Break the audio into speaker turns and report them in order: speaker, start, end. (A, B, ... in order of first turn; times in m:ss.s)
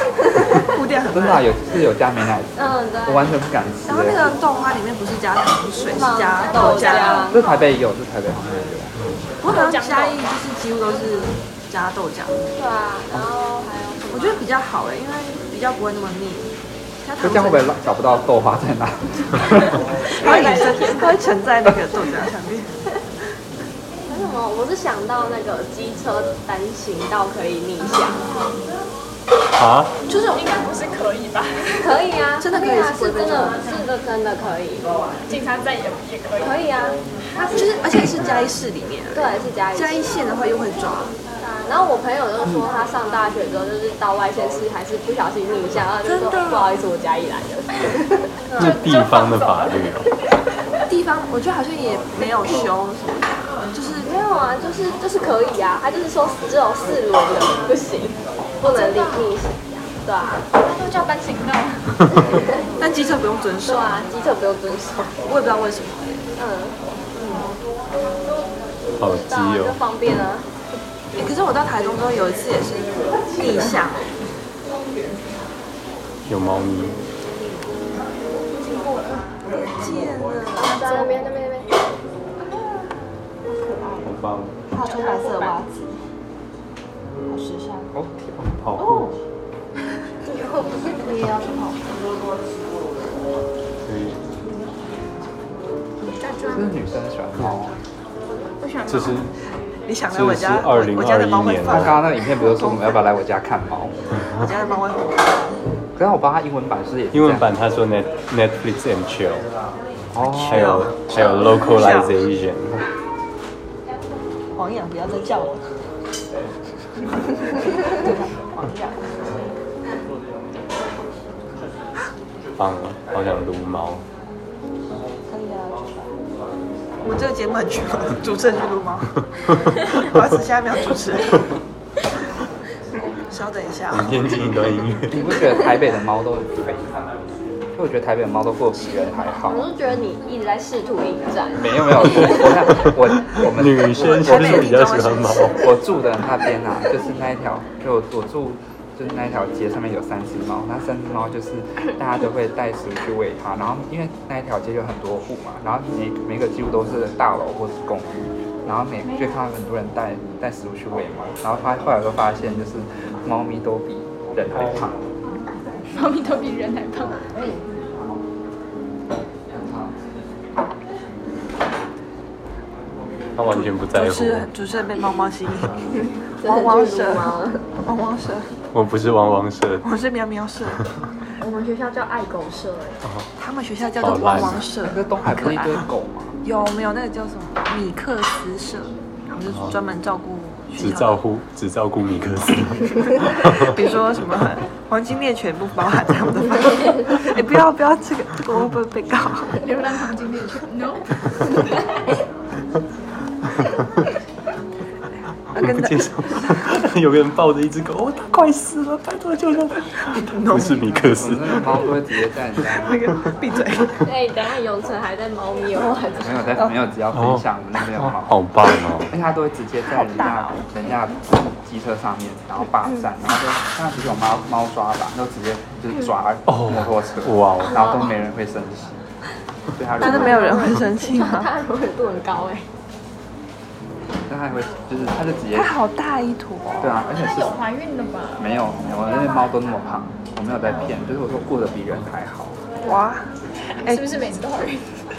0:00.4-0:01.5 A
0:01.1-0:04.4 B
0:02.6-0:03.3 C
0:03.9-0:07.3 A
0:05.9-0:07.4 C
0:06.4-0:07.6 D
0:07.3-0:08.9 B
0:09.4-0:12.4 A
0:09.5-0:10.2 D
0:12.6-0:14.4 C
0:14.1-0:16.5 A
0:17.0-0:17.7 A
0:17.2-0:19.8 B
0:20.1-0:22.7 A
0:20.2-0:21.2 C
0:20.3-0:20.8 D
0:24.1-0:28.3 C
0:29.6-0:29.9 E
0:30.1-0:30.4 A
0:30.2-0:32.0 D
0:31.8-0:34.9 C
0:32.4-0:33.7 A
0:35.3-0:36.6 D
0:36.4-0:37.7 C
0:37.4-0:41.1 A
0:39.1-0:40.0 C
0:41.6-0:48.3 C
0:46.0-0:46.7 A
0:48.4-0:48.8 A
0:48.6-0:49.8 D
0:48.6-0:50.1 E
0:50.9-0:54.1 A
0:54.0-1:00.4 C
0:58.6-0:59.3 D
1:00.6-1:02.0 D
1:02.8-1:04.0 A
1:03.6-1:05.2 C
1:05.3-1:06.2 A
1:06.4-1:06.8 C
1:09.0-1:10.5 C
1:09.0-1:09.8 E
1:11.2-1:14.1 A
1:16.3-1:17.0 E
1:18.5-1:19.3 D
1:19.5-1:20.9 A
1:20.6-1:21.7 C
1:20.8-1:21.1 D
1:24.0-1:24.6 E
1:24.7-1:26.0 A
1:24.8-1:25.6 D
1:27.3-1:27.9 A
1:27.9-1:28.5 B
1:28.6-1:29.1 E
1:30.3-1:31.5 C
1:31.4-1:31.7 A
1:33.9-1:34.2 E
1:36.1-1:36.8 D
1:36.5-1:37.8 B
1:38.6-1:39.3 D
1:38.9-1:39.3 E
1:39.9-1:42.8 A
1:40.1-1:42.0 E
1:41.7-1:44.0 B
1:44.3-1:45.6 A
1:46.0-1:47.5 B
1:47.1-1:49.5 E
1:50.1-1:50.9 B
1:50.4-1:52.2 A
1:50.4-1:52.8 E
1:54.6-1:55.7 A
1:57.8-1:59.2 A
2:02.6-2:04.0 E
2:05.3-2:05.8 A
2:07.0-2:11.4 A
2:13.2-2:14.4 A
2:13.9-2:15.2 E
2:15.1-2:17.0 B
2:17.8-2:19.6 B
2:19.5-2:22.4 C
2:21.6-2:24.7 B
2:22.0-2:25.7 E
2:23.9-2:25.5 A
2:25.6-2:45.0 B
2:45.9-2:47.3 D
2:47.4-2:47.8 B
2:49.5-2:50.0 B
2:53.4-2:54.5 E
2:53.5-2:55.8 A
2:56.4-2:57.6 C
2:56.4-2:58.5 A
2:58.7-2:59.9 E
2:59.8-3:00.8 A
3:01.4-3:03.0 C
3:03.4-3:05.8 A
3:04.0-3:04.7 E
3:04.8-3:06.4 B
3:06.4-3:11.2 A
3:10.8-3:13.8 E
3:13.4-3:19.6 A
3:19.6-3:21.6 D
3:25.5-3:26.7 A
3:25.5-3:31.8 E
3:30.0-3:31.0 A
3:30.8-3:33.0 B
3:32.8-3:34.1 A
3:34.0-3:36.6 C
3:36.2-3:38.4 B
3:37.1-3:37.4 E
3:38.0-3:39.1 E
3:39.1-3:49.0 B
3:40.0-3:40.7 A
3:46.5-3:47.9 E
3:47.7-3:48.1 C
3:49.7-3:50.7 B
3:50.0-3:51.5 A
3:50.0-3:52.7 C
3:54.3-3:55.7 B
3:55.6-3:56.9 A
3:56.8-3:57.6 B
3:57.1-3:58.5 D
3:58.4-4:02.6 B
4:02.8-4:03.3 A
4:03.7-4:05.1 D